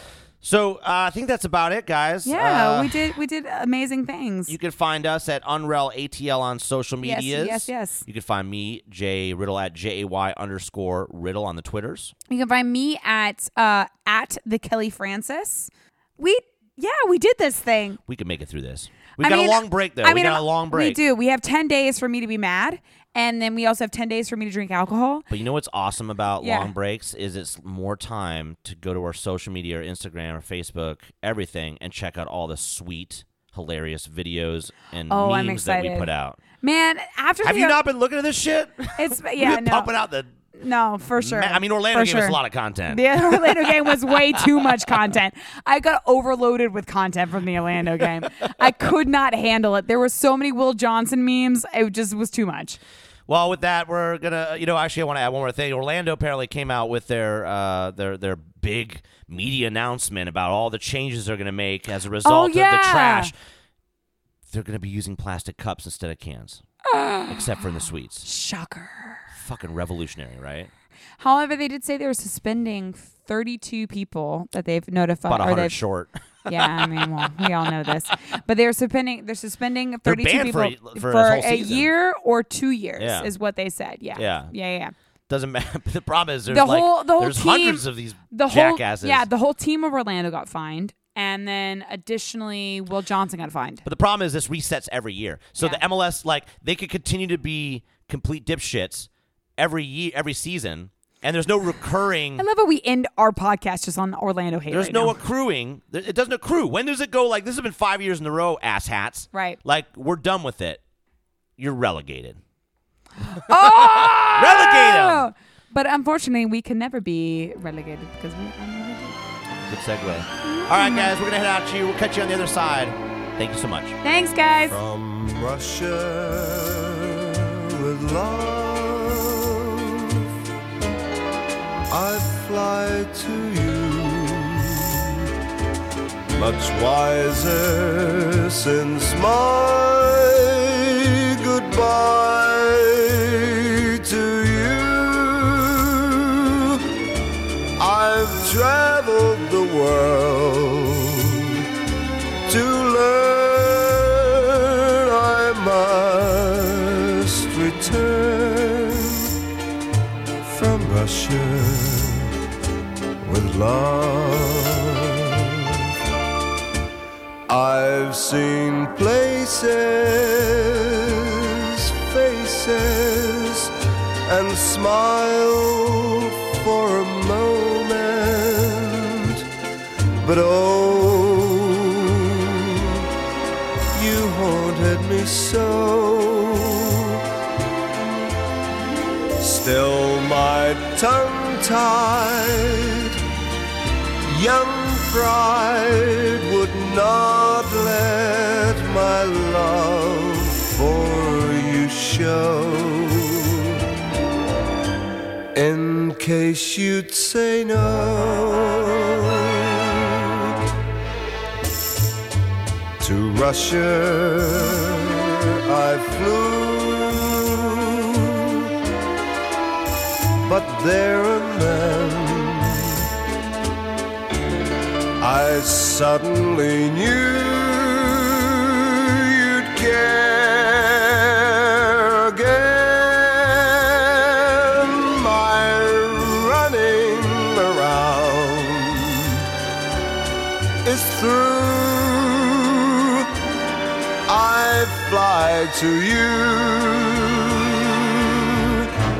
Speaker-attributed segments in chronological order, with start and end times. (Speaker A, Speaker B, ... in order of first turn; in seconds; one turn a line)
Speaker A: 0.4-3.1
Speaker B: 2.2-4.5
Speaker A: 4.5-12.1
Speaker B: 7.0-8.0
Speaker B: 12.3-18.0
Speaker A: 18.1-21.0
Speaker B: 19.2-25.3
Speaker A: 25.3-36.4
Speaker B: 26.4-26.7
Speaker B: 35.1-37.8
Speaker A: 37.4-40.3
Speaker B: 39.0-39.9
Speaker B: 40.5-42.4
Speaker A: 41.2-45.0
Speaker B: 42.9-52.8
Speaker A: 53.3-63.3
Speaker B: 62.2-63.3
Speaker A: 64.5-66.6
Speaker B: 66.8-67.7
Speaker A: 67.3-68.2
Speaker B: 68.2-69.2
Speaker A: 69.3-70.7
Speaker B: 71.2-75.8
Speaker A: 75.3-77.7
Speaker B: 76.5-84.9
Speaker A: 80.0-81.9
Speaker A: 83.0-83.3
Speaker A: 84.1-84.5
Speaker A: 85.3-89.3
Speaker B: 86.5-93.8
Speaker A: 93.8-102.4
Speaker B: 102.4-105.1
Speaker A: 104.7-110.8
Speaker B: 109.3-109.6
Speaker A: 111.6-112.4
Speaker B: 113.2-119.2
Speaker A: 113.3-115.3
Speaker A: 119.7-124.0
Speaker B: 120.4-121.1
Speaker B: 124.0-124.8
Speaker C: 124.7-130.3
Speaker C: 131.9-135.3
Speaker C: 136.3-146.8
Speaker C: 147.8-151.7
Speaker C: 152.5-159.3
Speaker C: 160.4-162.3
Speaker C: 163.2-165.9
Speaker C: 167.5-173.7
Speaker C: 174.2-179.4
Speaker C: 180.2-183.1
Speaker C: 183.9-187.2
Speaker C: 189.4-193.2
Speaker C: 194.2-203.8
Speaker C: 205.5-210.5
Speaker C: 213.0-218.7
Speaker C: 220.4-223.1
Speaker C: 225.2-239.5
Speaker C: 240.8-243.3
Speaker C: 244.3-248.9